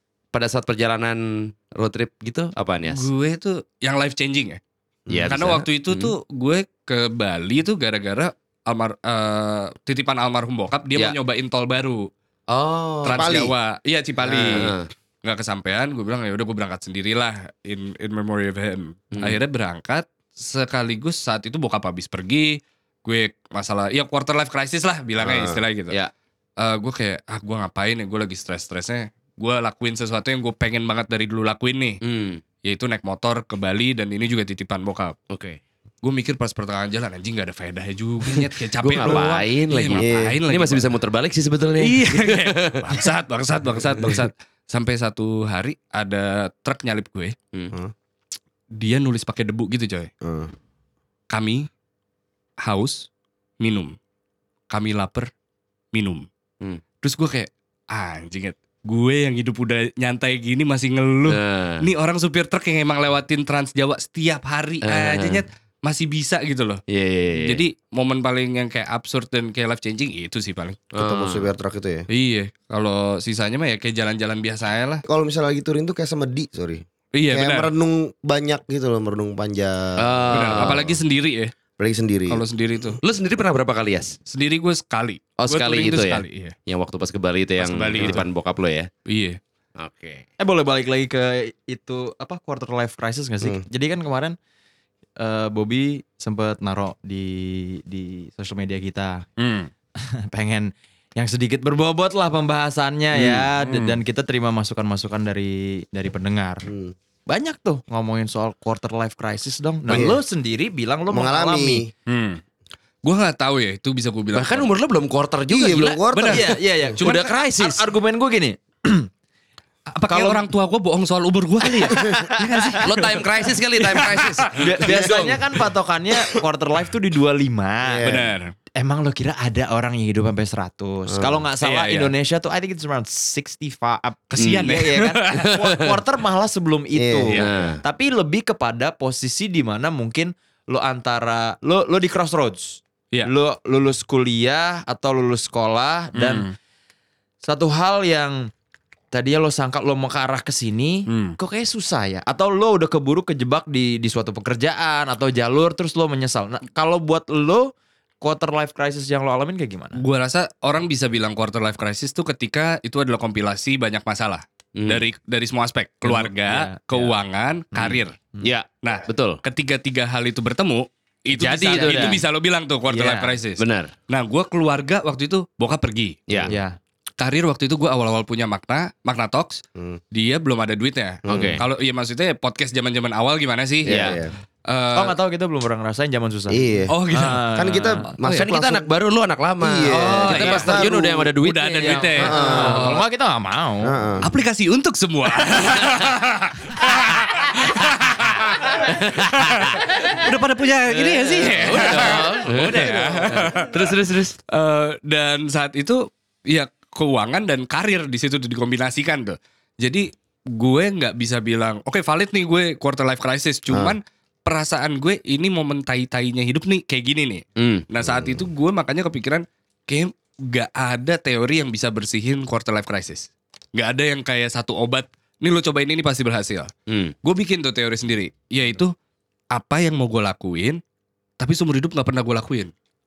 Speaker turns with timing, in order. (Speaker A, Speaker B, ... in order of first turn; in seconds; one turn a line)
Speaker A: 0.3-3.1
Speaker B: 2.9-4.6
Speaker A: 5.1-6.1
Speaker B: 5.3-12.1
Speaker A: 12.5-13.4
Speaker B: 13.0-26.0
Speaker C: 13.1-13.5
Speaker A: 14.3-14.9
Speaker A: 19.1-19.4
Speaker A: 25.2-26.1
Speaker B: 26.6-32.0
Speaker A: 32.0-32.4
Speaker B: 32.6-35.2
Speaker A: 35.3-35.6
Speaker B: 36.0-40.9
Speaker A: 38.8-43.0
Speaker C: 40.0-40.4
Speaker B: 41.8-47.4
Speaker B: 48.8-50.1
Speaker C: 50.2-50.5
Speaker B: 51.3-51.7
Speaker B: 52.6-53.1
Speaker B: 53.6-54.0
Speaker B: 54.7-55.3
Speaker B: 55.9-56.3
Speaker B: 57.0-66.8
Speaker A: 61.3-61.9
Speaker A: 64.8-65.4
Speaker A: 66.9-67.6
Speaker B: 67.3-70.8
Speaker A: 70.9-71.5
Speaker C: 70.9-72.1
Speaker B: 72.1-75.0
Speaker C: 75.1-80.8
Speaker B: 77.2-77.7
Speaker A: 80.0-81.0
Speaker B: 80.3-81.5
Speaker C: 81.8-82.4
Speaker B: 82.3-83.0
Speaker A: 83.0-84.2
Speaker B: 84.3-86.5
Speaker A: 85.4-88.9
Speaker B: 87.6-88.3
Speaker B: 89.1-89.4
Speaker A: 89.8-90.2
Speaker D: 90.4-94.4
Speaker D: 95.2-99.2
Speaker B: 99.4-99.7
Speaker D: 100.0-106.7
Speaker B: 103.6-104.0
Speaker C: 106.7-106.9
Speaker D: 107.3-111.8
Speaker C: 109.9-110.2
Speaker C: 111.1-111.9
Speaker B: 112.1-112.4
Speaker B: 113.0-114.7
Speaker A: 114.3-116.0
Speaker C: 115.5-116.9
Speaker B: 116.1-116.4
Speaker D: 116.3-117.0
Speaker B: 117.0-117.3
Speaker A: 117.0-117.8
Speaker D: 117.6-119.1
Speaker B: 119.9-124.5
Speaker D: 120.1-120.5
Speaker D: 121.8-122.8
Speaker A: 122.8-125.4
Speaker D: 124.5-128.1
Speaker C: 124.9-125.3
Speaker C: 127.8-128.3
Speaker B: 128.0-128.5
Speaker D: 128.8-146.5
Speaker C: 131.1-131.4
Speaker B: 131.6-132.1
Speaker B: 134.3-135.6
Speaker A: 134.4-134.7
Speaker A: 135.3-135.9
Speaker C: 136.9-137.5
Speaker B: 137.3-137.6
Speaker A: 137.4-137.8
Speaker B: 146.2-146.5
Speaker D: 147.4-148.5
Speaker D: 149.1-160.0
Speaker B: 151.1-151.4
Speaker B: 160.0-168.2
Speaker A: 164.8-165.0
Speaker D: 166.0-167.2
Speaker D: 167.7-168.5
Speaker A: 168.4-169.4
Speaker B: 168.8-176.2
Speaker D: 171.3-172.2
Speaker A: 171.3-172.2
Speaker D: 172.9-173.4
Speaker A: 173.6-173.9
Speaker A: 176.3-176.5
Speaker D: 176.5-176.8
Speaker B: 177.2-179.6
Speaker B: 180.1-185.2
Speaker C: 181.3-181.6
Speaker A: 181.3-181.6
Speaker C: 183.8-184.3
Speaker A: 183.9-184.2
Speaker D: 184.9-188.1
Speaker C: 186.5-186.9
Speaker B: 186.9-187.5
Speaker C: 187.5-188.9
Speaker A: 188.3-193.0
Speaker C: 189.6-191.3
Speaker B: 189.9-190.9
Speaker B: 191.4-192.9
Speaker D: 191.7-194.0
Speaker C: 192.2-192.9
Speaker C: 193.8-194.3
Speaker B: 194.2-203.9
Speaker A: 198.8-199.9
Speaker A: 200.9-204.4
Speaker B: 204.5-226.7
Speaker C: 213.7-214.0
Speaker A: 217.6-218.4
Speaker A: 226.9-227.1
Speaker B: 227.2-228.9
Speaker B: 229.5-230.8
Speaker B: 231.4-232.7